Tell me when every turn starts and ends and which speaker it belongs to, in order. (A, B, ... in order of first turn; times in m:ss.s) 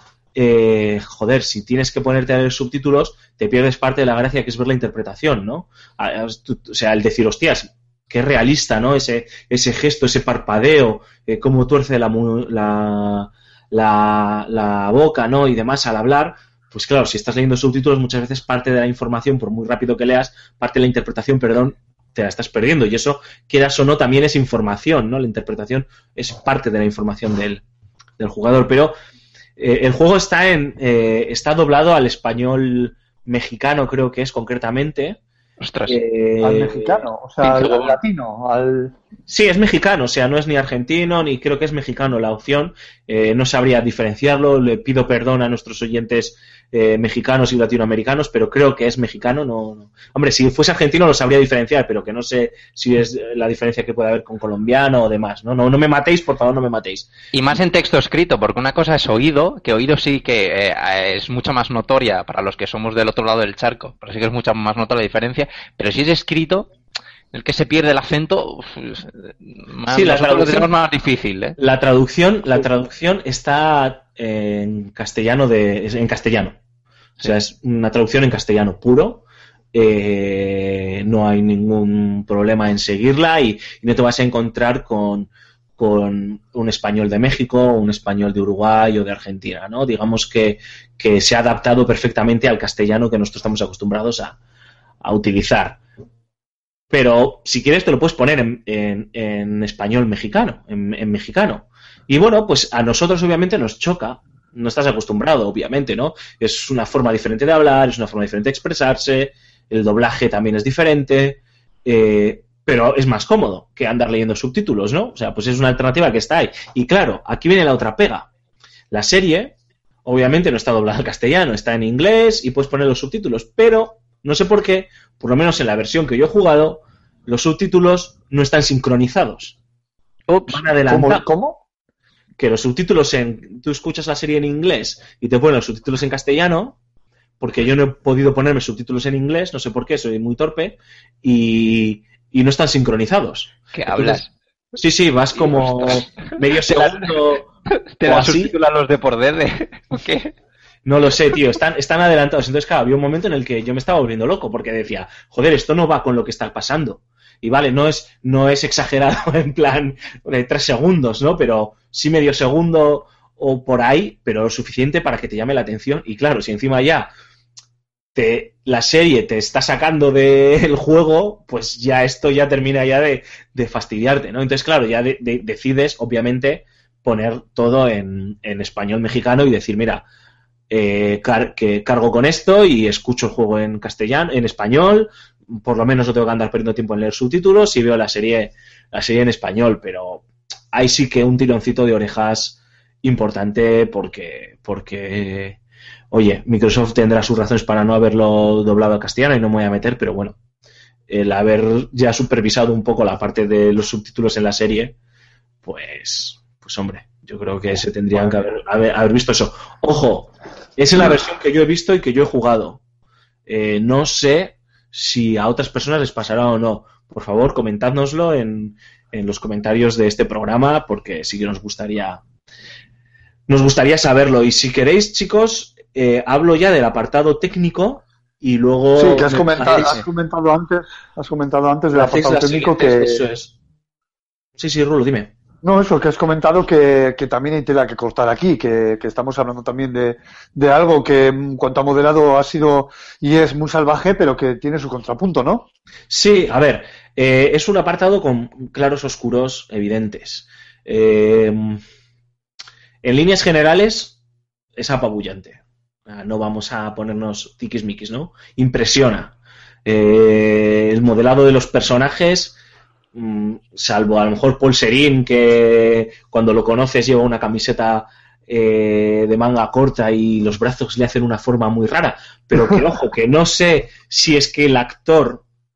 0:00.3-0:27.6 A
0:28.2-0:28.9 A
0:29.6-0:35.2 A
0:35.6-0:36.0 B
0:35.9-0:37.0 A
0:36.4-0:38.9 C
0:37.4-0:37.9 B
0:39.3-0:57.1 A
0:57.3-1:06.7 B
1:07.3-1:11.6 B
1:09.9-1:10.7 A
1:11.6-1:16.6 A
1:17.2-1:34.4 A
1:35.0-1:35.8 A
1:36.9-1:58.3 A
1:58.9-1:59.5 A
2:00.0-2:09.6 A
2:10.3-2:10.6 B
2:10.5-2:11.2 A
2:10.8-2:11.6 C
2:12.4-2:16.8 A
2:17.4-2:24.2 A
2:23.7-2:24.3 B
2:24.7-2:27.5 A
2:25.4-2:27.1 B
2:28.0-2:30.3 B
2:28.0-2:28.5 A
2:30.8-2:47.1 A
2:48.1-3:00.0 A
3:00.7-3:15.6 A
3:16.1-3:20.4 A
3:21.1-3:24.9 A
3:25.6-3:32.8 A
3:33.5-3:42.2 A
3:43.5-3:50.0 A
3:48.9-3:53.2 C
3:51.9-3:53.5 A
3:54.6-3:55.3 A
3:55.6-4:05.7 C
4:06.1-4:11.8 A
4:13.0-4:14.2 A
4:14.8-4:19.3 A
4:19.8-4:22.6 A
4:23.1-4:35.4 A